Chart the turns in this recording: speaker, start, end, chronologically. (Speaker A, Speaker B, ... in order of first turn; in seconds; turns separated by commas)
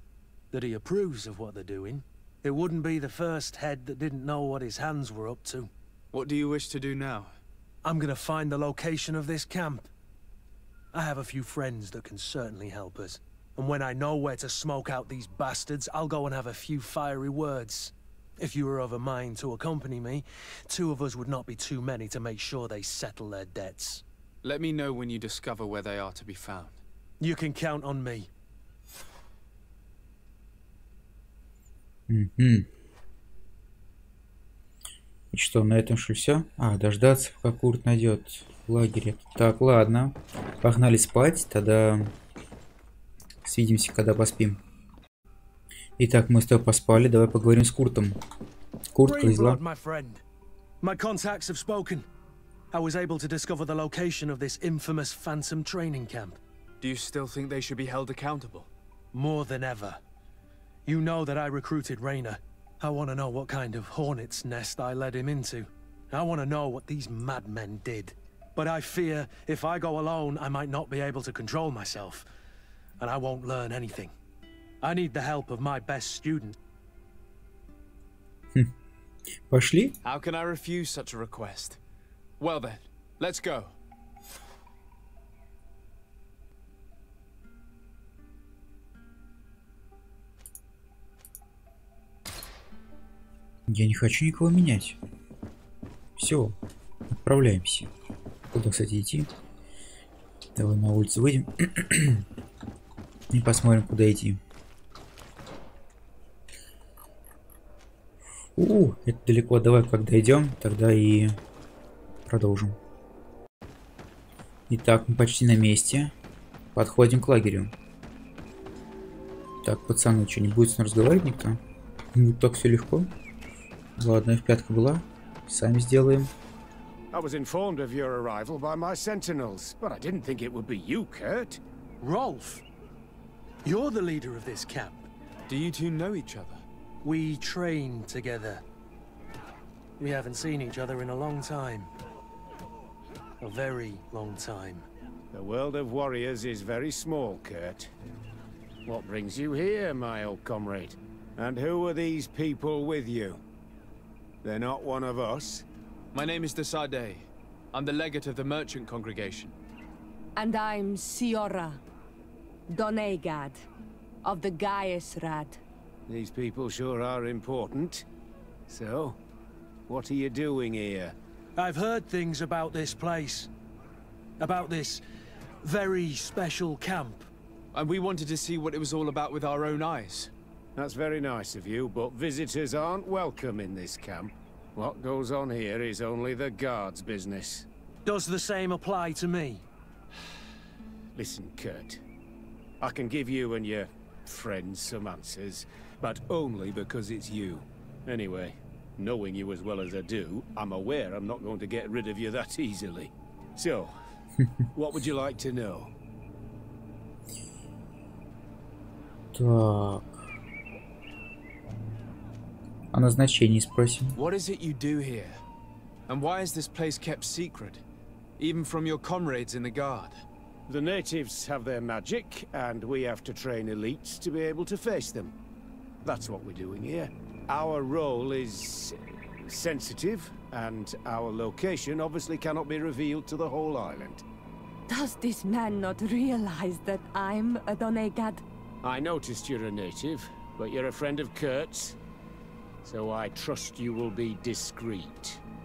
Speaker A: 0.5-5.7, Speaker B: 6.1-7.4, Speaker A: 7.8-9.9, Speaker A: 10.9-24.0, Speaker B: 24.4-26.8, Speaker A: 27.2-28.3, Speaker C: 32.1-32.7, Speaker C: 35.3-42.1, Speaker C: 43.4-44.6, Speaker C: 46.0-48.2, Speaker C: 48.9-49.6, Speaker A: 49.0-50.2, Speaker A: 50.8-52.1, Speaker A: 52.7-56.4, Speaker B: 56.8-58.7, Speaker A: 59.1-60.0, Speaker A: 60.9-72.3, Speaker A: 73.0-74.1, Speaker A: 74.8-76.6, Speaker C: 79.5-80.0, Speaker B: 80.0-81.8, Speaker B: 82.4-83.7, Speaker C: 93.7-95.0, Speaker C: 96.2-96.6, Speaker C: 97.1-97.9, Speaker C: 98.5-99.3, Speaker C: 100.6-102.2, Speaker C: 103.3-104.4, Speaker C: 108.6-111.4, Speaker C: 112.3-112.8, Speaker C: 114.7-116.1, Speaker C: 116.8-117.7, Speaker C: 119.6-121.6, Speaker C: 122.1-123.1, Speaker C: 124.0-126.3, Speaker D: 127.1-131.6, Speaker A: 132.0-132.6, Speaker A: 133.6-135.1, Speaker B: 135.5-136.6, Speaker A: 137.0-138.6, Speaker A: 140.0-141.9, Speaker A: 143.4-144.9, Speaker D: 145.3-147.9, Speaker D: 148.9-153.4, Speaker D: 154.4-155.6, Speaker B: 156.1-159.6, Speaker E: 160.4-161.8, Speaker E: 162.7-163.6, Speaker E: 164.2-165.6, Speaker D: 166.1-168.1, Speaker D: 168.7-169.2, Speaker D: 169.9-171.1, Speaker A: 171.6-173.5, Speaker A: 174.4-175.0, Speaker A: 175.6-177.3, Speaker B: 177.7-180.3, Speaker D: 180.8-187.7, Speaker A: 188.1-189.6, Speaker D: 191.1-192.0, Speaker D: 192.8-203.9, Speaker D: 204.8-205.9, Speaker C: 209.3-210.3, Speaker C: 212.9-214.2, Speaker B: 214.2-215.4, Speaker B: 216.1-217.8, Speaker B: 218.4-220.2, Speaker D: 220.7-225.3, Speaker D: 226.1-234.2, Speaker E: 234.9-238.4, Speaker D: 238.8-241.9, Speaker D: 242.8-245.4